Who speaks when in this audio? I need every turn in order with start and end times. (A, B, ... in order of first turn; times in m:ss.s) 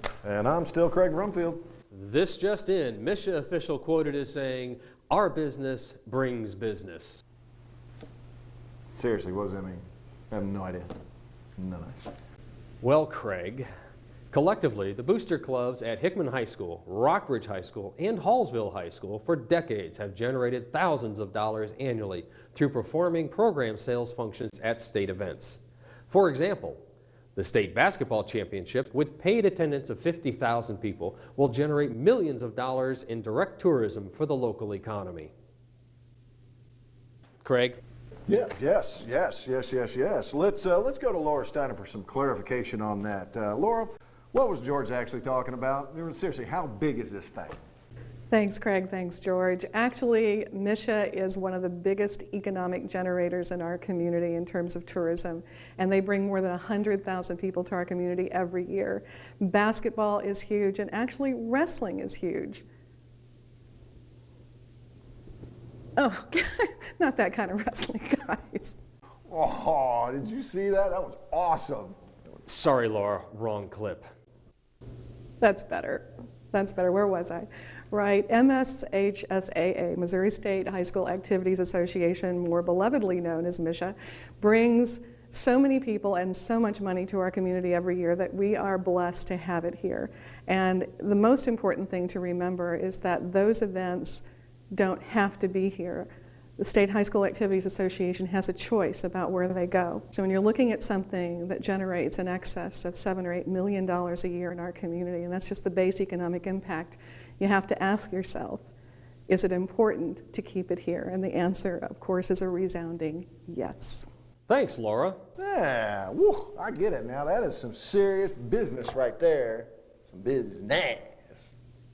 0:00.2-0:01.6 A
0:01.9-0:07.2 B
0:08.9-0:10.9 A
0:11.6-0:12.0 A
0:12.8-0:13.7 B
0:14.3-0:26.8 B
0:27.4-0:35.3 B
0:37.4-0:37.8 B
0:38.3-0:47.6 A
0:48.3-1:02.6 C
1:06.0-1:08.8 C
1:09.3-1:12.0 A
1:12.5-1:14.1 B
1:15.4-1:48.7 C
1:49.3-1:54.1 C
1:54.5-1:55.2 B
1:55.4-2:01.5 A